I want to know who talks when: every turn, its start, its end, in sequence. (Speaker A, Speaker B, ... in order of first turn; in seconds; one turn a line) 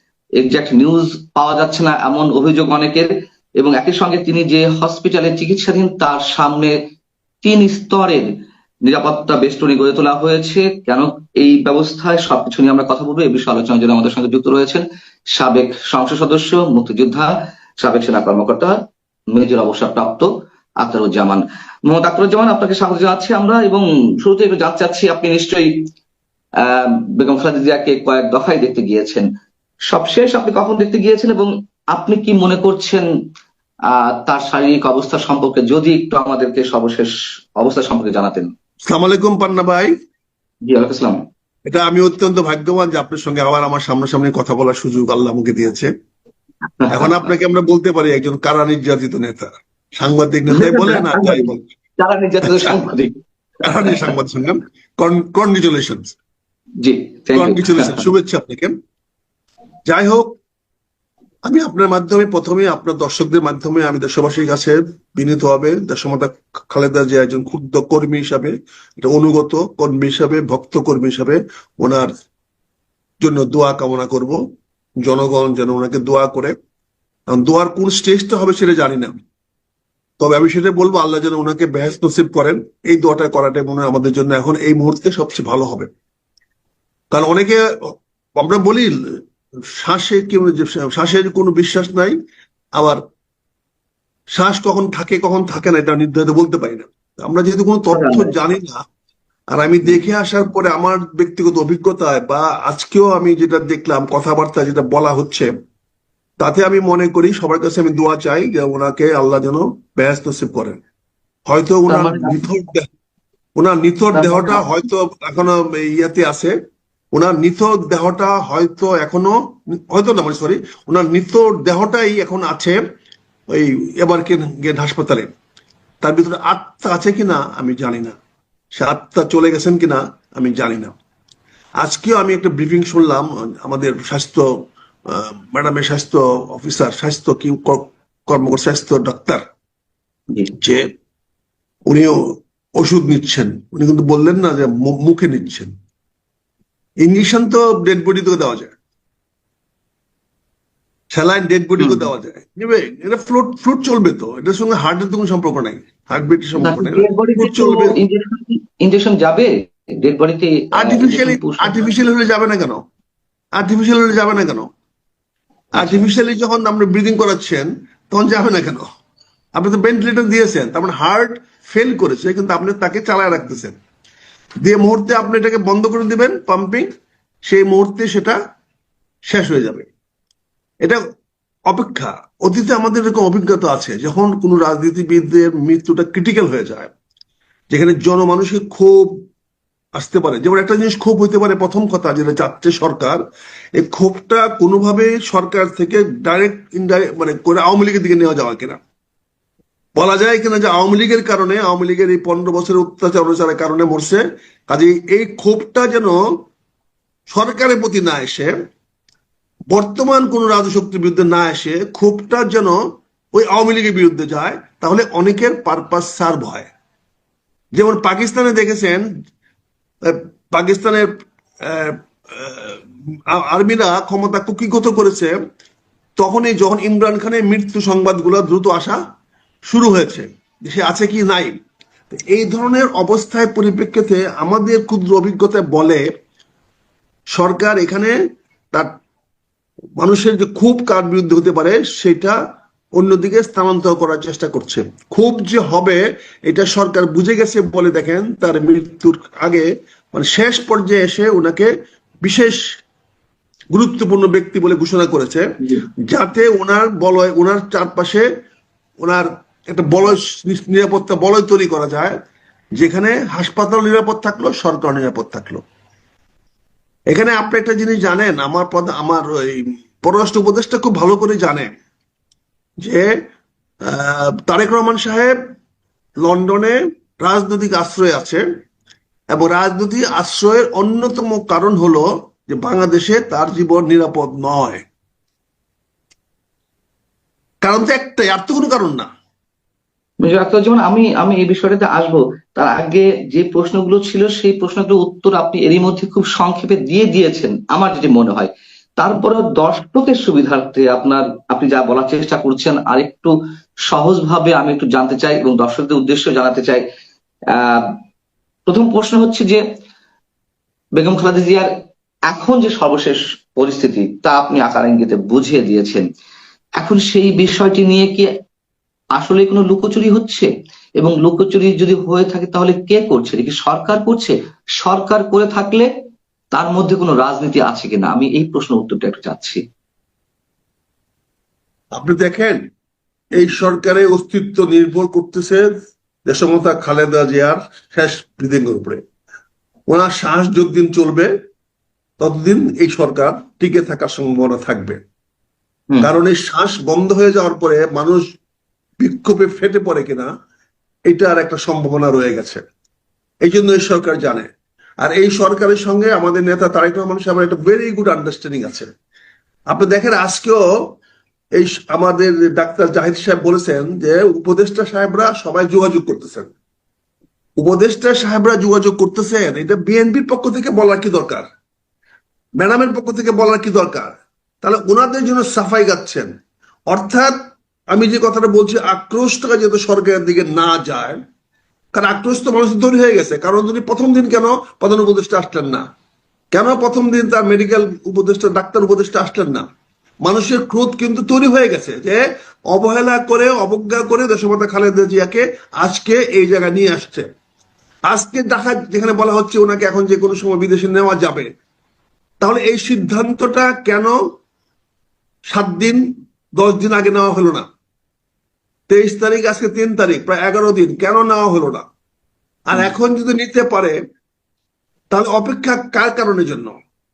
Speaker A: 0.4-6.7
Speaker A: 7.4-8.3
Speaker A: 8.9-18.8
Speaker A: 19.3-20.3
Speaker A: 20.8-25.7
Speaker A: 26.6-29.2
Speaker A: 29.9-33.0
Speaker A: 34.0-38.5
Speaker B: 38.9-39.9
Speaker A: 40.7-41.2
Speaker B: 41.7-45.9
Speaker A: 46.8-47.2
Speaker B: 46.9-51.6
Speaker A: 50.5-53.1
Speaker B: 52.4-52.8
Speaker B: 53.6-56.1
Speaker A: 53.8-54.1
Speaker A: 56.8-58.0
Speaker B: 57.3-58.7
Speaker B: 59.9-60.3
Speaker B: 61.5-72.1
Speaker B: 73.2-74.4
Speaker B: 75.0-76.5
Speaker B: 77.3-79.2
Speaker B: 80.2-85.9
Speaker B: 87.1-88.9
Speaker B: 89.8-92.2
Speaker B: 94.3-98.8
Speaker A: 97.9-98.3
Speaker B: 99.5-105.5
Speaker B: 106.4-110.8
Speaker B: 111.5-112.9
Speaker A: 111.9-112.4
Speaker B: 113.6-116.5
Speaker A: 114.1-114.6
Speaker B: 117.1-119.3
Speaker B: 119.9-122.8
Speaker B: 123.5-125.3
Speaker B: 126.0-128.2
Speaker B: 128.8-130.9
Speaker B: 131.8-134.4
Speaker B: 135.1-139.4
Speaker B: 140.6-140.9
Speaker B: 141.9-142.2
Speaker B: 142.8-145.7
Speaker B: 147.0-148.7
Speaker B: 151.1-157.9
Speaker A: 151.8-152.1
Speaker A: 156.6-161.9
Speaker B: 160.8-162.8
Speaker B: 163.6-164.7
Speaker A: 165.8-166.1
Speaker B: 165.8-168.9
Speaker B: 169.6-173.8
Speaker B: 174.6-176.9
Speaker B: 177.5-178.4
Speaker B: 179.3-179.9
Speaker B: 181.7-186.9
Speaker B: 187.7-189.1
Speaker B: 190.0-193.2
Speaker B: 193.8-198.8
Speaker B: 200.0-206.2
Speaker B: 207.3-208.5
Speaker B: 209.7-212.8
Speaker B: 213.3-216.7
Speaker B: 217.8-219.1
Speaker B: 220.1-221.1
Speaker B: 221.6-225.3
Speaker B: 226.2-229.0
Speaker B: 229.7-231.6
Speaker B: 232.1-236.0
Speaker B: 237.3-238.1
Speaker B: 240.0-242.3
Speaker B: 242.9-251.7
Speaker B: 252.2-252.6
Speaker B: 253.7-255.5
Speaker B: 256.1-258.2
Speaker B: 259.0-262.2
Speaker B: 262.8-265.6
Speaker B: 267.1-271.7
Speaker B: 272.8-273.1
Speaker B: 273.9-275.4
Speaker B: 276.2-278.4
Speaker B: 279.3-284.8
Speaker B: 287.6-289.1
Speaker A: 290.2-303.3
Speaker A: 303.9-306.8
Speaker A: 307.6-307.9
Speaker A: 308.7-309.6
Speaker A: 310.9-311.7
Speaker A: 312.3-316.1
Speaker A: 316.8-318.3
Speaker A: 319.2-325.9
Speaker A: 326.5-329.6
Speaker B: 331.9-332.6
Speaker B: 333.3-335.6
Speaker B: 336.3-339.0
Speaker B: 339.9-341.3
Speaker B: 342.2-345.0
Speaker B: 346.0-348.2
Speaker B: 349.0-350.3
Speaker B: 351.1-352.6
Speaker B: 353.4-354.5
Speaker B: 355.0-358.9
Speaker B: 359.7-360.6
Speaker B: 361.6-366.5
Speaker B: 367.6-371.5
Speaker B: 372.6-376.3
Speaker B: 376.9-377.3
Speaker B: 377.9-381.2
Speaker B: 381.9-385.9
Speaker B: 386.5-389.6
Speaker B: 390.2-397.2
Speaker B: 398.1-401.5
Speaker B: 402.4-404.1
Speaker B: 405.5-406.0
Speaker B: 406.6-407.6
Speaker B: 408.9-411.9
Speaker B: 412.7-414.0
Speaker B: 415.1-416.8